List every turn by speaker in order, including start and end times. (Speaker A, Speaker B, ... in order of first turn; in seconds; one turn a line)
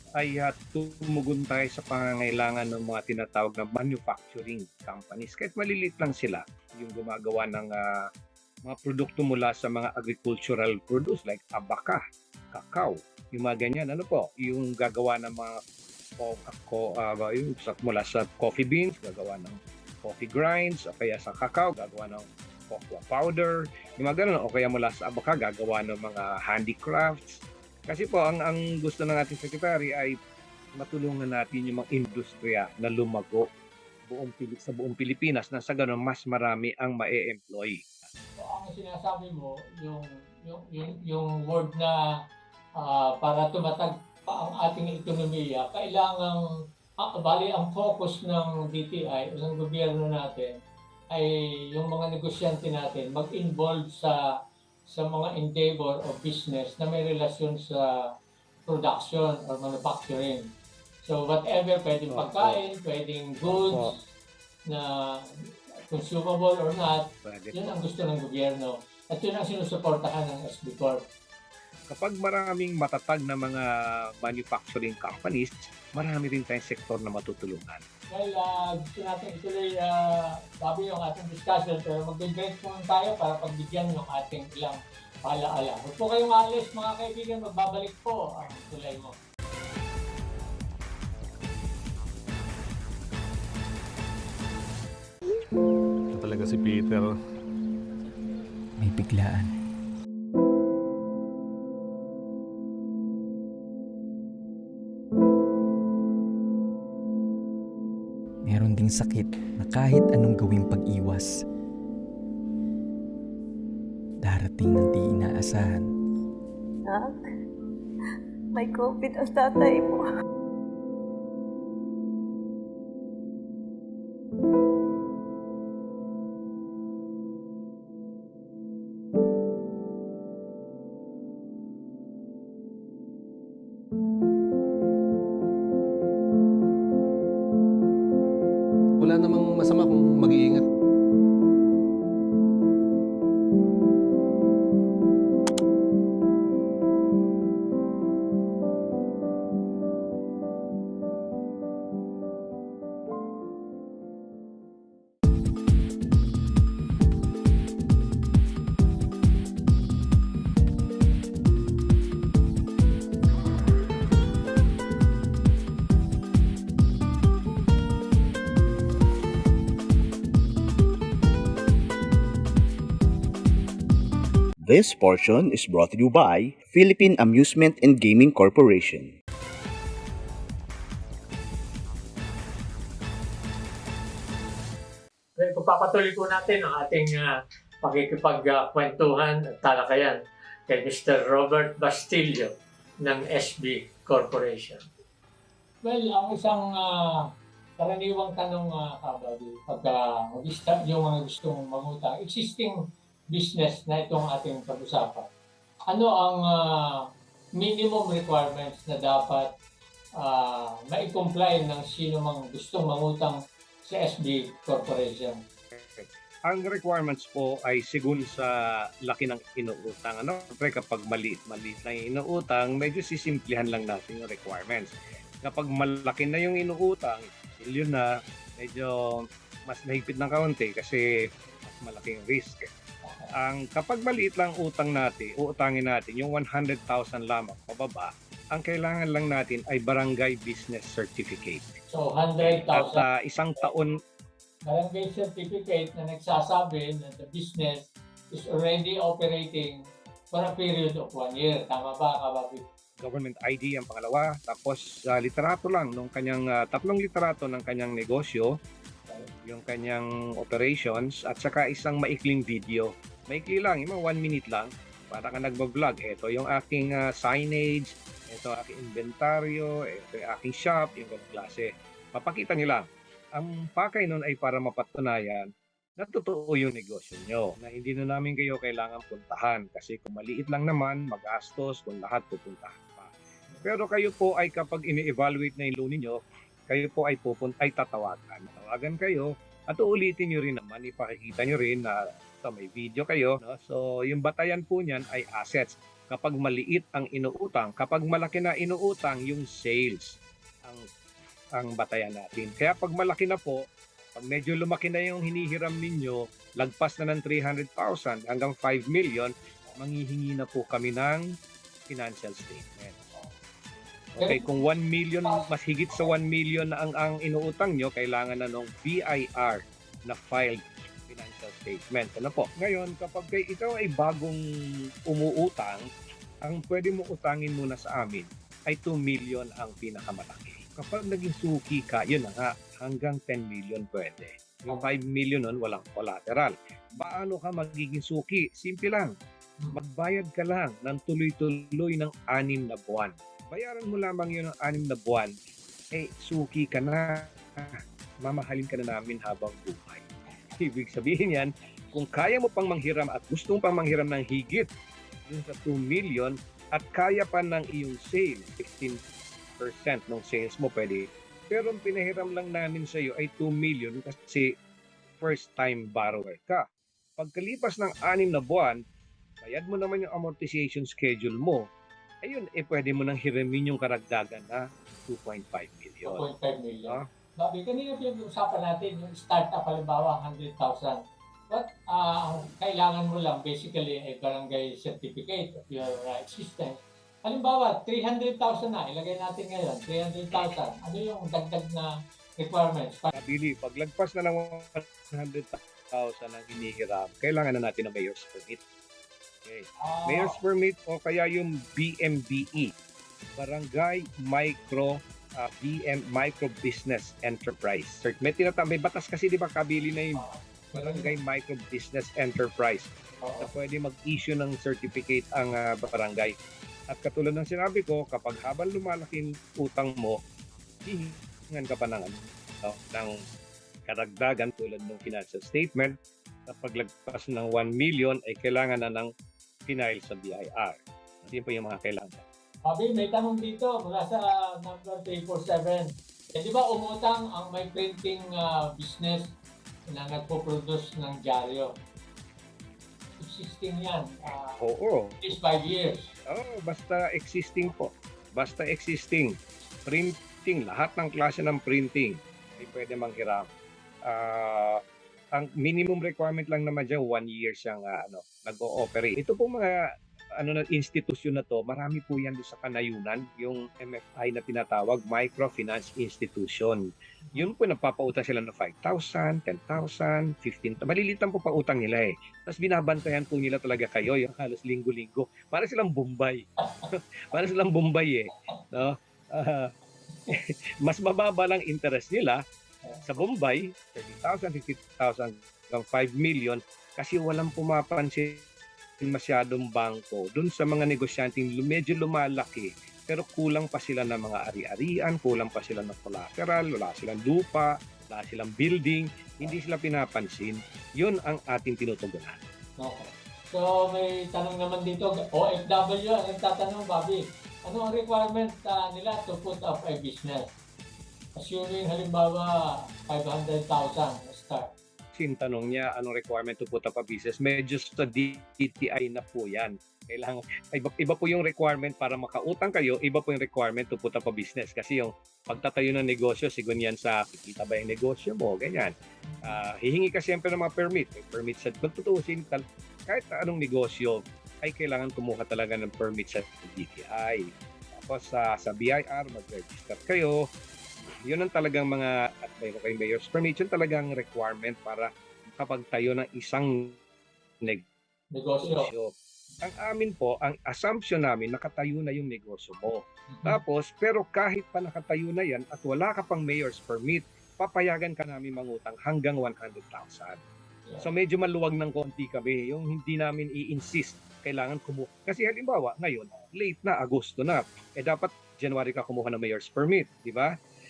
Speaker A: 0.2-8.1
Speaker A: 8.7-12.0
Speaker A: 12.5-15.6
Speaker A: 16.2-30.1
Speaker A: 30.8-33.5
Speaker A: 34.1-37.8
Speaker B: 38.4-41.9
Speaker B: 42.8-46.4
Speaker B: 47.0-50.6
Speaker B: 51.1-54.1
Speaker B: 54.9-57.8
Speaker B: 58.7-60.5
Speaker B: 61.0-63.9
Speaker A: 62.1-62.6
Speaker A: 63.4-63.9
Speaker B: 64.7-65.2
Speaker B: 65.9-71.0
Speaker A: 67.2-67.7
Speaker A: 71.9-73.6
Speaker A: 74.2-77.8
Speaker B: 78.1-89.2
Speaker C: 96.1-97.2
Speaker D: 98.8-99.5
Speaker D: 108.5-111.4
Speaker D: 114.2-115.9
Speaker E: 116.8-117.2
Speaker E: 118.5-120.1
Speaker C: 139.0-140.6
Speaker F: 174.6-179.1
Speaker B: 185.4-187.3
Speaker B: 187.8-192.5
Speaker B: 193.0-194.8
Speaker B: 195.8-197.1
Speaker B: 197.8-202.8
Speaker B: 203.3-205.2
Speaker B: 205.9-206.6
Speaker B: 207.6-209.5
Speaker B: 210.2-215.4
Speaker A: 215.7-224.9
Speaker A: 225.4-231.0
Speaker A: 231.6-232.7
Speaker B: 233.0-233.3
Speaker A: 233.3-241.8
Speaker B: 241.9-243.0
Speaker A: 242.4-244.0
Speaker B: 244.7-249.8
Speaker B: 250.3-252.6
Speaker A: 253.0-258.5
Speaker A: 259.4-283.1
Speaker A: 283.6-300.8
Speaker A: 301.6-303.6
Speaker A: 304.1-311.3
Speaker A: 311.9-313.0
Speaker A: 314.1-324.4
Speaker B: 314.2-314.6
Speaker A: 325.1-325.9
Speaker A: 326.4-339.1
Speaker A: 339.7-345.3
Speaker A: 345.9-350.1
Speaker A: 350.6-354.7
Speaker A: 355.3-359.0
Speaker A: 359.6-364.5
Speaker A: 365.2-366.6
Speaker A: 367.2-368.8
Speaker A: 369.4-371.6
Speaker A: 372.2-376.2
Speaker B: 376.0-393.1
Speaker A: 393.1-398.6
Speaker A: 399.4-402.7
Speaker B: 399.8-400.4
Speaker A: 403.4-416.4
Speaker B: 410.1-411.1
Speaker A: 416.9-420.2
Speaker A: 420.8-423.1
Speaker A: 423.9-425.9
Speaker A: 426.5-429.1
Speaker A: 429.7-432.2
Speaker B: 432.6-439.3
Speaker B: 439.9-441.7
Speaker B: 443.2-444.6
Speaker A: 444.6-445.2
Speaker B: 445.2-446.1
Speaker A: 446.3-453.5
Speaker A: 454.1-454.8
Speaker A: 455.3-459.9
Speaker A: 460.4-479.7
Speaker A: 480.3-482.4
Speaker A: 483.0-488.4
Speaker A: 489.0-502.4
Speaker B: 502.8-510.5
Speaker B: 511.4-512.5
Speaker B: 513.1-514.7
Speaker A: 515.1-540.4
Speaker A: 541.2-547.0
Speaker B: 548.3-548.9
Speaker A: 548.6-560.4
Speaker B: 553.3-553.6
Speaker A: 561.0-570.5